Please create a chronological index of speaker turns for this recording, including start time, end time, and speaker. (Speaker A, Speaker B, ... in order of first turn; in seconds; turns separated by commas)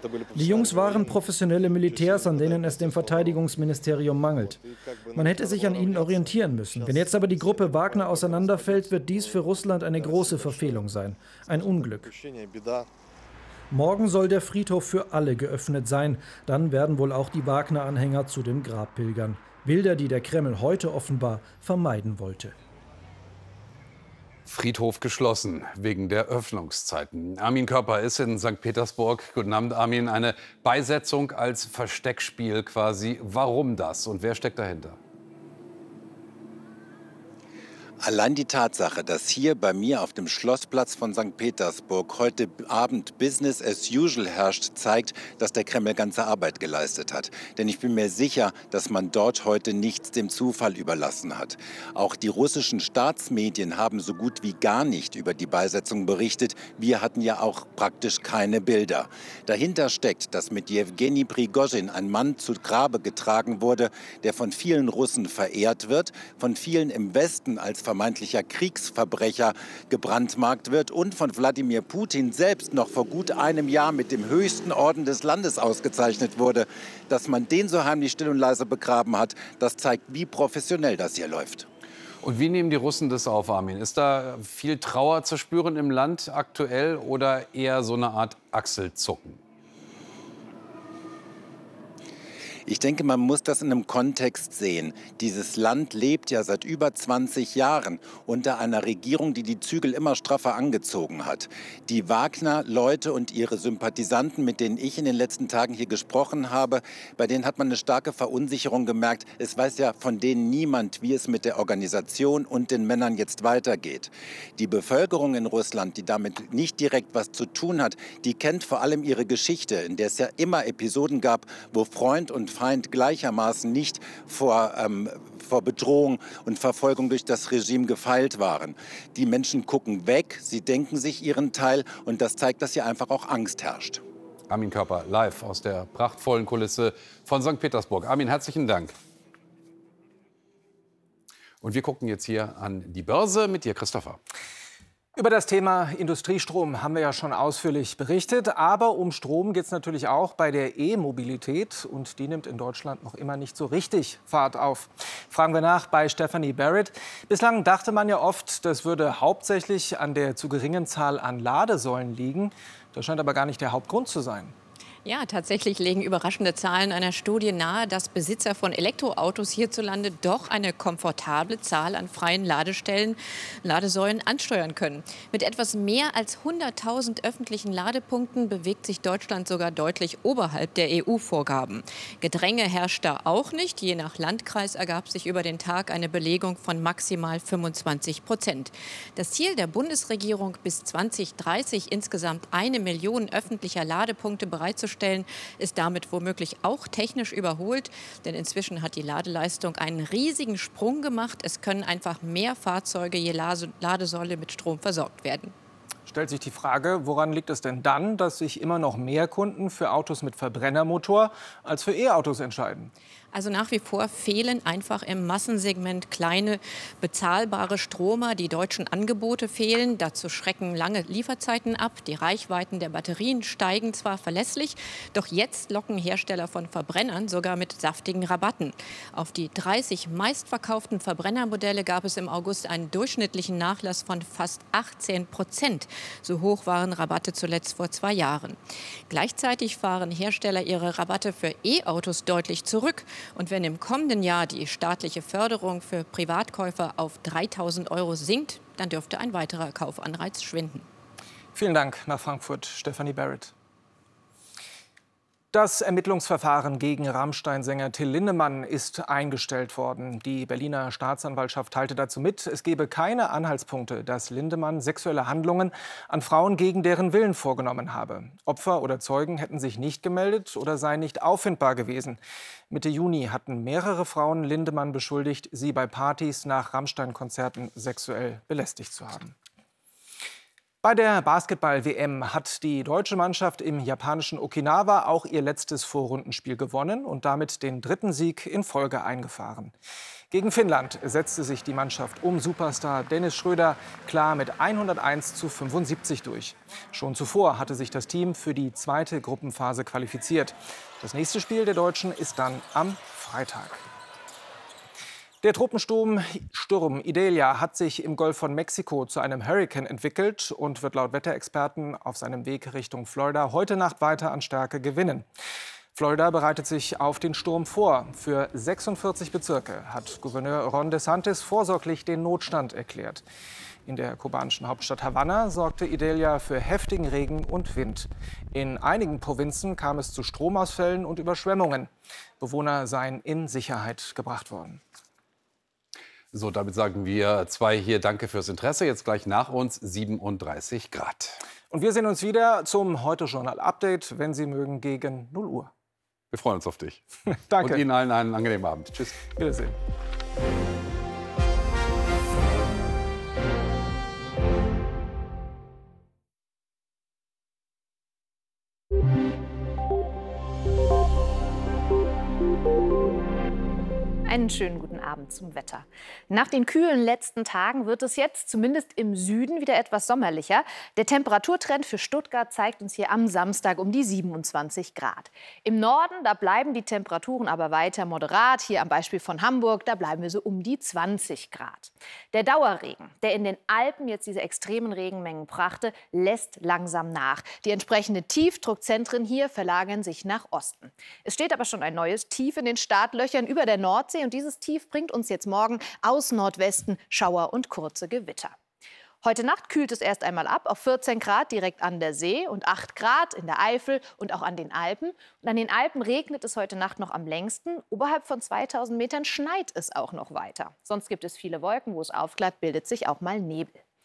Speaker A: 0.3-12.1, Speaker A: 13.7-22.6, Speaker B: 24.5-35.0, Speaker C: 38.0-81.7, Speaker B: 82.2-89.4, Speaker C: 92.7-134.0, Speaker B: 134.5-139.0, Speaker B: 141.6-144.2, Speaker D: 145.2-164.5, Speaker E: 165.1-205.5, Speaker D: 206.1-212.9, Speaker E: 213.3-238.6, Speaker E: 239.1-250.9, Speaker D: 251.5-253.5, Speaker D: 255.5-272.2, Speaker D: 272.7-279.4, Speaker D: 280.8-289.7, Speaker D: 290.3-303.9, Speaker D: 305.4-315.3, Speaker D: 315.9-323.2, Speaker D: 323.9-334.8, Speaker B: 336.3-341.4, Speaker D: 341.7-345.7, Speaker B: 346.3-347.0, Speaker D: 347.5-347.8, Speaker B: 347.6-349.2, Speaker D: 349.2-349.8, Speaker F: 364.3-398.6, Speaker F: 399.2-413.8